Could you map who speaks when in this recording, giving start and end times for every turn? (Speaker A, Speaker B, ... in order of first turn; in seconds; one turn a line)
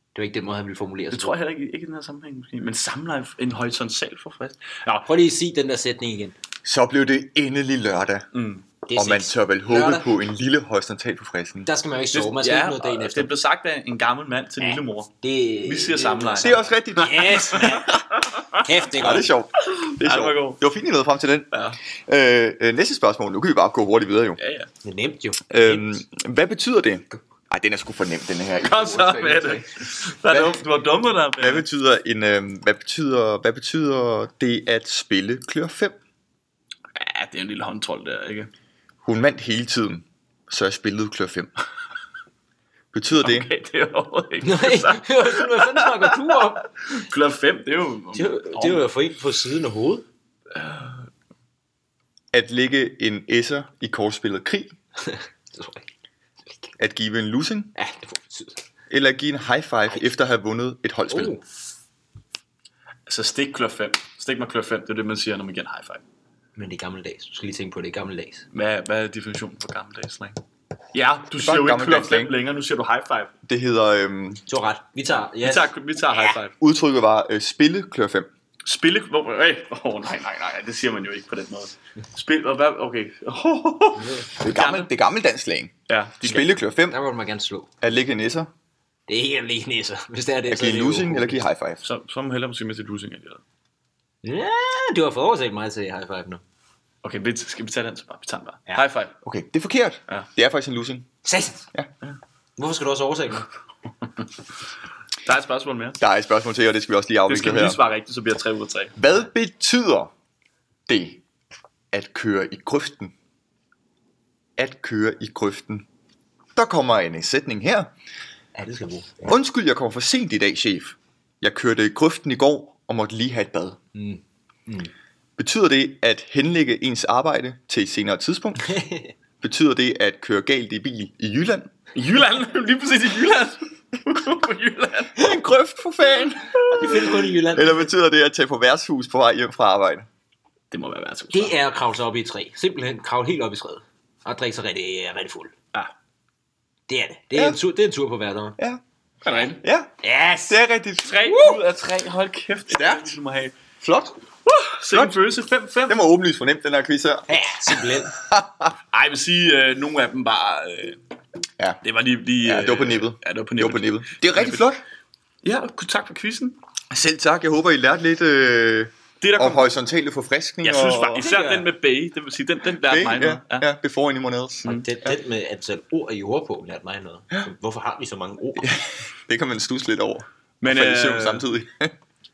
Speaker A: 0.1-1.4
Speaker B: 1.1-5.0
Speaker A: 5.0-6.3
Speaker C: 6.6-8.3
Speaker B: 8.3-8.7
Speaker A: 8.9-10.1
Speaker C: 8.9-11.7
Speaker A: 11.7-13.3
Speaker B: 12.1-15.1
Speaker A: 14.6-18.0
Speaker B: 15.7-18.6
Speaker C: 16.4-17.8
Speaker A: 18.6-19.3
Speaker C: 18.9-21.5
Speaker B: 19.6-20.6
Speaker B: 21.5-21.8
Speaker C: 22.1-24.4
Speaker B: 24.4-24.7
Speaker A: 24.8-26.0
Speaker C: 25.5-29.7
Speaker B: 28.6-31.7
Speaker C: 30.2-30.6
Speaker C: 31.4-36.0
Speaker B: 36.9-38.5
Speaker C: 39.0-41.5
Speaker C: 42.9-43.5
Speaker B: 43.1-48.9
Speaker A: 44.4-46.7
Speaker A: 48.1-50.0
Speaker B: 50.5-51.0
Speaker C: 52.3-54.8
Speaker A: 55.0-55.9
Speaker A: 56.5-56.7
Speaker C: 56.8-57.7
Speaker A: 57.8-58.6
Speaker C: 58.9-61.3
Speaker A: 61.1-61.4
Speaker B: 63.1-66.0
Speaker A: 66.6-68.5
Speaker B: 68.5-70.4
Speaker B: 70.9-73.3
Speaker C: 71.3-72.4
Speaker C: 73.5-74.5
Speaker A: 74.5-76.3
Speaker B: 75.4-76.5
Speaker C: 76.6-78.3
Speaker B: 78.7-84.9
Speaker A: 84.0-84.3
Speaker C: 84.4-85.7
Speaker B: 85.9-86.5
Speaker C: 86.2-87.0
Speaker A: 86.3-87.7
Speaker C: 87.8-88.5
Speaker A: 89.1-91.5
Speaker C: 90.5-91.8
Speaker B: 91.8-93.4
Speaker A: 94.2-96.4
Speaker B: 97.0-99.2
Speaker C: 99.2-101.1
Speaker A: 101.2-101.7
Speaker A: 102.6-103.5
Speaker B: 105.2-106.0
Speaker C: 106.0-107.8
Speaker B: 107.3-109.0
Speaker C: 109.0-110.1
Speaker C: 110.9-111.2
Speaker C: 111.9-113.1
Speaker C: 114.6-115.9
Speaker C: 116.6-117.9
Speaker A: 118.5-119.3
Speaker C: 119.2-123.8
Speaker A: 123.9-124.9
Speaker C: 125.4-128.8
Speaker A: 128.7-129.1
Speaker C: 129.4-131.7
Speaker B: 131.9-135.4
Speaker C: 135.2-140.1
Speaker B: 136.6-137.3
Speaker A: 136.7-137.9
Speaker B: 140.7-141.6
Speaker A: 141.3-145.5
Speaker A: 146.9-148.6
Speaker C: 147.3-147.6
Speaker B: 149.2-149.6
Speaker C: 149.6-149.9
Speaker A: 150.0-150.6
Speaker C: 150.5-151.6
Speaker B: 151.0-153.6
Speaker C: 152.7-153.1
Speaker C: 153.8-154.1
Speaker B: 154.5-156.0
Speaker C: 154.9-155.2
Speaker C: 155.9-157.3
Speaker A: 157.3-158.1
Speaker C: 158.1-158.7
Speaker B: 158.9-161.0
Speaker B: 161.8-164.7
Speaker C: 162.4-164.8
Speaker B: 165.4-166.6
Speaker C: 166.9-171.3
Speaker B: 169.2-169.7
Speaker B: 170.6-173.7
Speaker A: 171.2-171.7
Speaker C: 172.8-175.2
Speaker A: 174.7-178.8
Speaker C: 178.6-181.9
Speaker B: 180.6-181.5